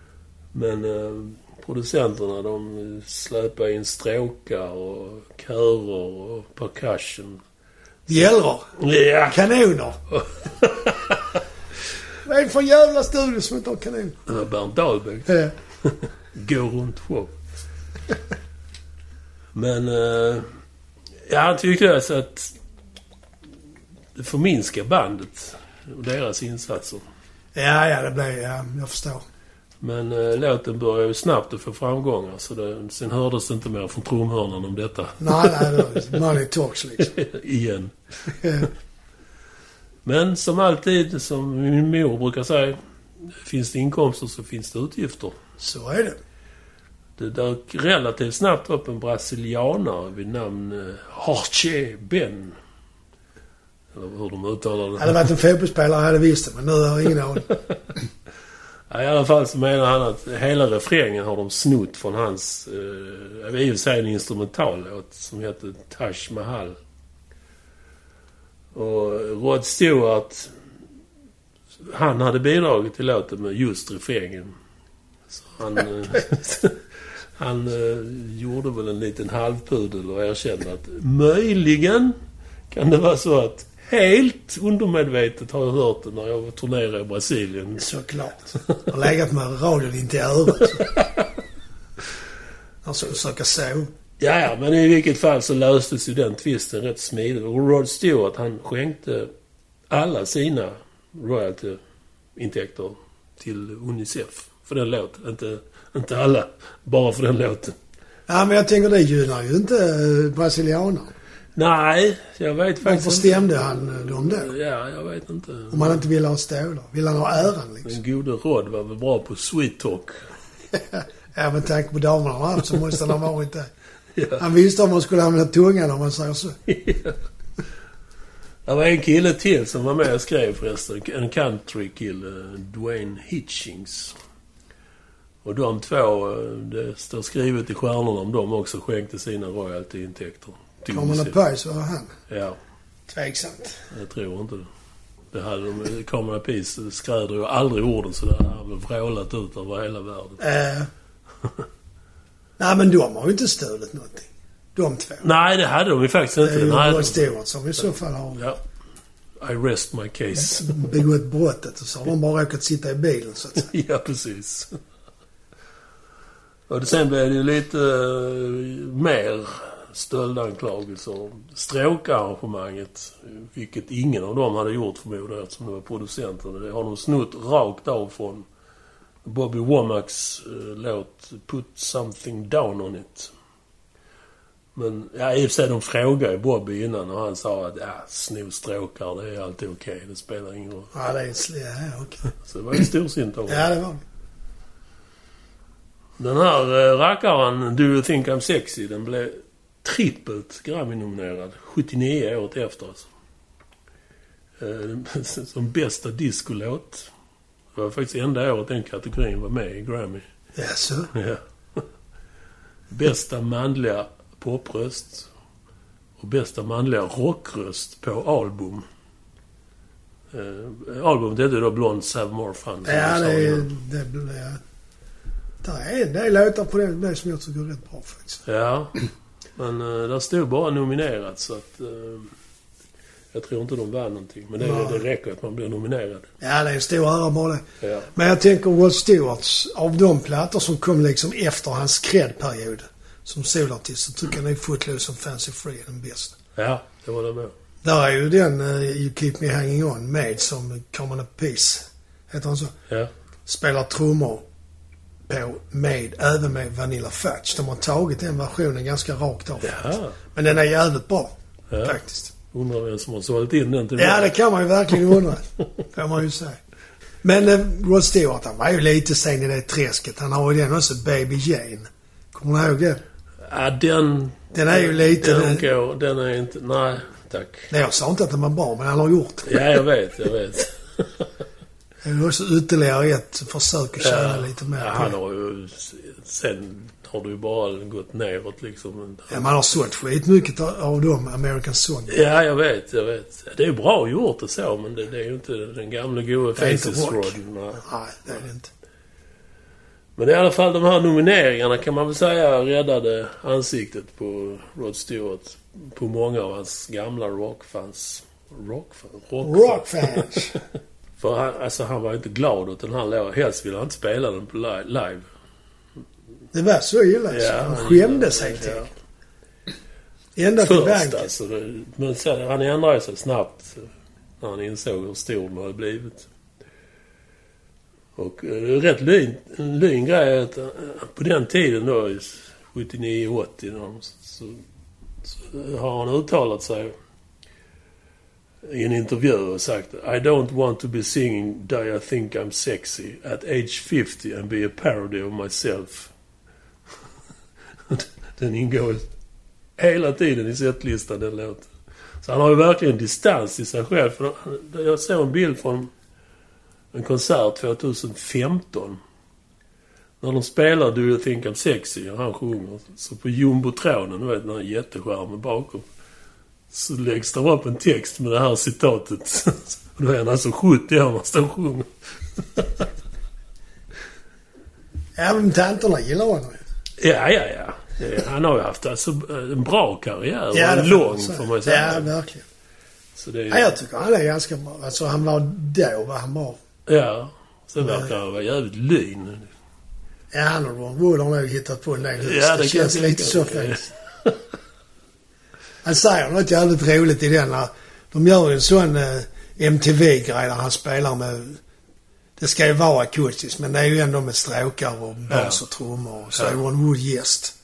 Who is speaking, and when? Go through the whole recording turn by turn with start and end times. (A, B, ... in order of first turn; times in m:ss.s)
0:00.5-0:07.4 A
0:08.1-0:08.7 B
0:08.8-0:09.4 A
0:09.3-0:10.0 B
0:10.1-0:11.4 A
0:12.2-0:14.2 B
0:14.3-0:17.3 A
0:19.5-0:20.4 A
0:21.2-0:22.5 A
0:24.1-0:27.0 A
0:27.5-0:29.2 B
0:29.8-0:36.0 A
0:35.2-0:37.1 B
0:37.0-0:37.9 A
0:38.3-0:38.7 B
0:40.0-0:45.4 A
0:45.6-0:46.2 B
0:47.2-0:52.6 A
0:53.9-0:55.3 A
0:55.0-0:57.5 B
0:58.9-1:06.8 A
1:08.7-1:10.5 A
1:11.8-1:14.5 A
1:15.3-1:16.8 A
1:17.4-1:22.2 A
1:22.7-1:27.9 A
1:27.8-1:30.8 B
1:30.8-1:31.1 A
1:32.8-1:33.9 B
1:34.2-1:39.3 A
1:39.9-1:41.8 A
1:42.4-1:47.8 A
1:48.3-1:51.1 B
1:51.6-1:56.0 A
1:52.8-1:54.5 B
1:55.7-1:58.0 B
1:57.8-2:00.2 A
2:00.7-2:03.7 B
2:04.2-2:04.4 A
2:04.4-2:06.6 B
2:06.7-2:07.2 A
2:08.6-2:14.2 A
2:15.4-2:21.4 A
2:20.9-2:22.1 B
2:22.3-2:22.6 A
2:23.1-2:23.8 B
2:23.9-2:24.7 A
2:25.3-2:30.4 A
2:30.4-2:30.9 B
2:32.6-2:35.2 B
2:35.2-2:37.3 A
2:36.4-2:38.5 B
2:39.4-2:40.9 A
2:40.4-2:43.7 B
2:43.6-2:44.8 A
2:46.7-2:58.4 A
2:59.2-3:03.3 A
3:04.7-3:10.9 A
3:10.9-3:12.2 B
3:12.2-3:13.7 A
3:13.5-3:14.0 B
3:16.2-3:23.1 A
3:24.6-3:27.1 A
3:27.7-3:30.2 A
3:30.6-3:31.1 B
3:31.1-3:31.8 A
3:32.9-3:35.3 A
3:36.2-3:38.8 A
3:40.3-3:43.7 A
3:42.8-3:44.6 B
3:45.6-3:48.4 B
3:48.4-3:49.0 A
3:49.6-3:52.3 A
3:53.3-3:56.3 A
3:54.6-3:55.0 B
3:56.4-4:06.4 B
3:57.8-3:58.1 A
4:06.6-4:07.5 A
4:07.8-4:12.7 B
4:13.4-4:14.4 B
4:15.3-4:22.3 B
4:19.6-4:20.2 A
4:21.7-4:22.0 A
4:22.5-4:24.3 A
4:24.0-4:26.6 B
4:27.2-4:33.0 B
4:33.4-4:37.7 A
4:34.5-4:35.6 B
4:37.7-4:39.6 B
4:39.4-4:41.3 A
4:42.0-4:45.1 B
4:44.0-4:49.5 A
4:49.3-4:52.2 B
4:52.1-4:57.8 A
4:56.6-4:58.7 B
5:00.2-5:10.6 A
5:09.4-5:10.6 B
5:11.2-5:15.3 A
5:16.5-5:18.9 B
5:17.3-5:18.9 A
5:20.4-5:21.3 B
5:20.6-5:23.9 A
5:24.4-5:26.3 A
5:28.2-5:34.6 A
5:35.2-5:36.9 A
5:38.6-5:46.1 A
5:47.9-5:49.1 A
5:49.8-5:51.7 A
5:52.2-5:55.9 A
5:56.9-5:59.0 A
6:00.2-6:05.8 A
6:06.7-6:12.9 A
6:15.1-6:16.6 B
6:17.0-6:22.1 A
6:20.5-6:22.4 B
6:23.2-6:23.7 A
6:23.5-6:26.6 B
6:26.9-6:29.5 A
6:27.8-6:28.1 B
6:30.3-6:33.9 B
6:32.2-6:34.4 A
6:35.8-6:41.6 B
6:42.4-6:47.5 B
6:45.3-6:45.6 A